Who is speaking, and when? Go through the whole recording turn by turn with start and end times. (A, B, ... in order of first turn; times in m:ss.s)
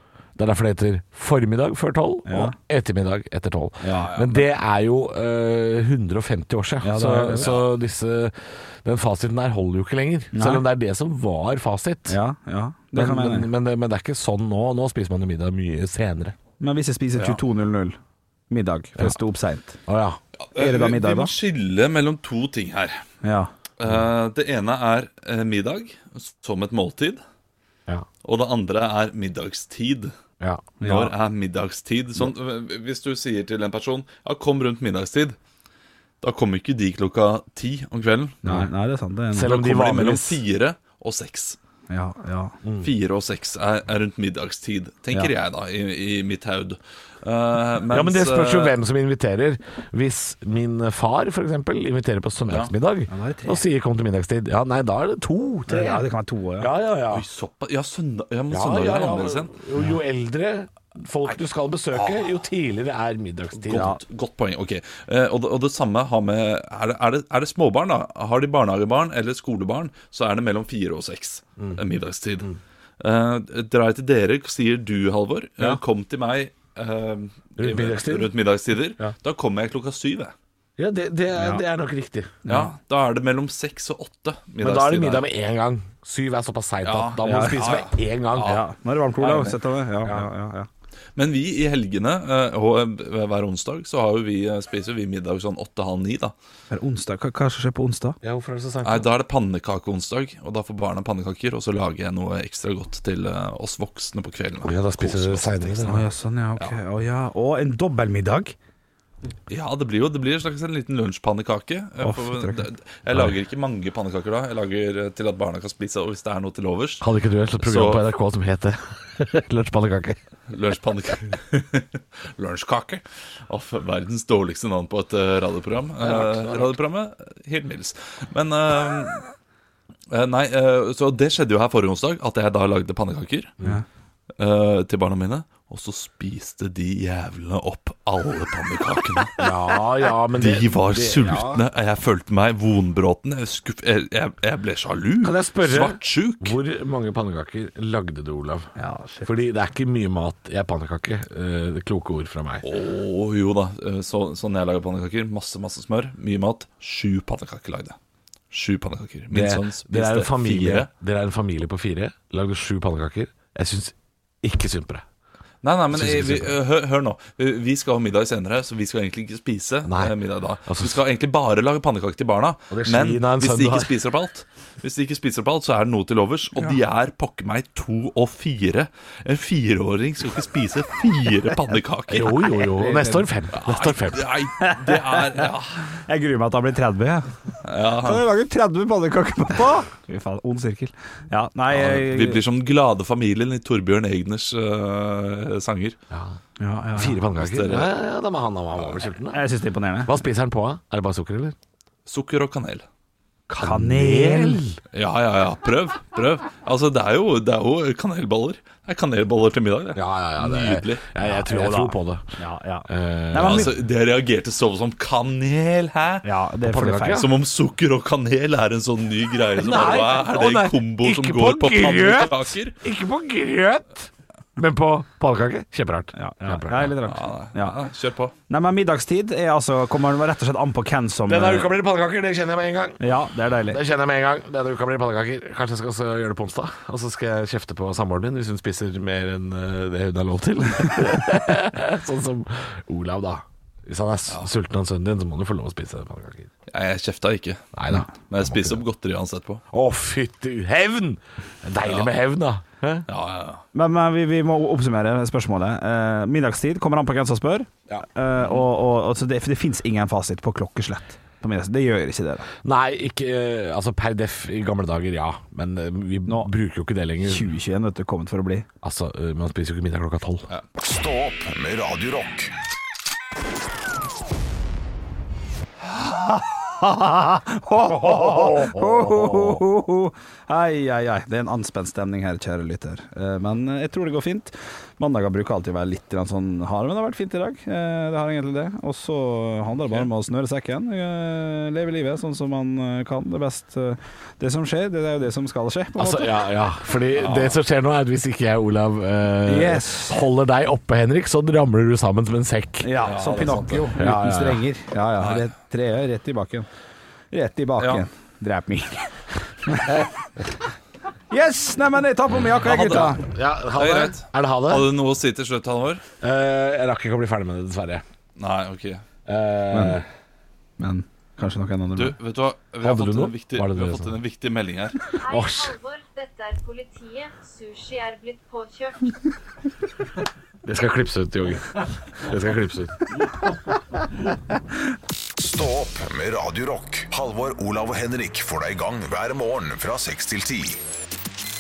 0:00.4-0:12.2 A
0:02.3-0:02.5 B
0:03.8-0:04.2 B
0:04.2-0:04.4 C
0:06.8-0:07.6 B
0:10.3-0:10.6 B
0:12.1-0:13.5 B
0:12.9-0:16.4 A
0:16.6-0:18.0 B
0:18.5-0:19.8 B
0:19.9-0:20.2 A
0:20.4-0:23.0 C
0:20.6-0:21.3 B
0:23.2-0:23.5 B
0:23.8-0:27.2 C
0:28.2-0:30.1 C
0:30.4-0:30.7 A
0:30.8-0:31.1 B
0:30.8-0:35.4 C
0:36.2-0:38.4 C
0:38.4-0:39.7 B
0:39.3-0:40.4 A
0:39.5-0:41.6 C
0:41.9-0:42.6 B
0:42.8-0:48.8 C
0:47.9-0:56.0 A
0:52.5-0:52.7 C
0:53.1-0:53.7 B
0:55.7-0:56.7 B
0:56.6-0:57.2 A
0:57.1-0:59.5 C
0:58.5-1:03.9 A
1:01.9-1:02.3 C
1:03.6-1:12.5 C
1:03.7-1:04.0 B
1:13.0-1:20.3 C
1:17.6-1:18.4 A
1:20.8-1:22.4 A
1:21.4-1:21.6 B
1:22.4-1:22.7 B
1:22.5-1:25.2 C
1:24.6-1:28.6 A
1:26.8-1:28.6 C
1:27.2-1:27.8 B
1:28.4-1:30.7 B
1:29.2-1:29.6 C
1:31.2-1:36.3 C
1:36.7-1:38.2 B
1:38.2-1:39.1 A
1:38.8-1:46.0 C
1:44.6-1:46.1 A
1:45.8-1:48.6 B
1:49.5-1:57.0 C
1:52.0-1:52.6 B
1:57.0-2:00.2 A
1:57.6-1:58.0 C
2:00.5-2:09.2 C
2:06.0-2:06.6 A
2:10.1-2:13.5 C
2:14.4-2:19.4 C
2:19.4-2:21.6 A
2:20.4-2:26.6 C
2:25.2-2:28.7 A
2:28.8-2:29.4 B
2:29.2-2:32.7 A
2:32.6-2:38.0 C
2:38.5-2:40.9 C
2:39.3-2:45.0 A
2:45.6-3:02.6 C
2:45.9-2:46.6 A
2:49.9-2:50.1 A
2:50.7-2:51.0 A
2:52.7-2:53.9 A
3:02.1-3:04.3 A
3:02.7-3:03.3 B
3:03.6-3:05.9 C
3:04.6-3:05.5 B
3:06.1-3:07.3 B
3:07.6-3:08.2 C
3:08.0-3:12.4 B
3:11.7-3:16.0 C
3:16.1-3:16.4 A
3:16.6-3:17.2 B
3:17.0-3:19.4 A
3:17.4-3:17.9 C
3:19.3-3:20.1 B
3:20.1-3:21.6 A
3:22.1-3:22.9 C
3:23.5-3:24.8 A
3:23.6-3:24.6 B
3:24.9-3:31.0 C
3:30.0-3:32.2 A
3:31.2-3:33.7 B
3:32.9-3:33.7 A
3:33.3-3:36.2 C
3:36.2-3:37.3 B
3:36.6-3:37.3 A
3:37.1-3:42.8 C
3:39.6-3:46.9 A
3:46.2-3:47.8 B
3:47.0-3:48.3 C
3:48.5-3:51.7 B
3:51.3-3:53.0 A
3:53.0-3:53.8 B
3:53.7-4:06.5 A
4:06.7-4:07.7 C
4:07.8-4:08.8 A
4:08.2-4:09.6 C
4:09.7-4:13.1 A
4:11.8-4:12.1 C
4:13.1-4:13.6 C
4:13.7-4:22.5 B
4:22.6-4:27.5 A
4:27.2-4:28.7 B
4:28.8-4:30.5 A
4:30.8-4:32.5 D
4:35.9-4:56.4 B
4:38.0-4:39.6 A
4:56.0-5:02.9 A
4:57.2-4:57.6 C
4:59.5-5:00.2 B
5:02.8-5:06.7 B
5:03.0-5:03.9 C
5:04.0-5:04.6 A
5:05.2-5:05.5 C
5:07.3-5:10.1 B
5:07.8-5:08.0 C
5:11.3-5:13.2 B
5:12.6-5:13.1 C
5:12.7-5:14.9 A
5:13.8-5:16.0 C
5:16.2-5:18.0 A
5:18.4-5:19.0 C
5:19.3-5:20.0 A
5:19.7-5:20.0 B
5:20.8-5:22.2 B
5:22.0-5:25.0 C
5:22.8-5:24.1 A
5:25.2-5:29.2 E
5:25.3-5:25.8 A
5:30.6-5:33.1 A
5:35.4-5:40.8 D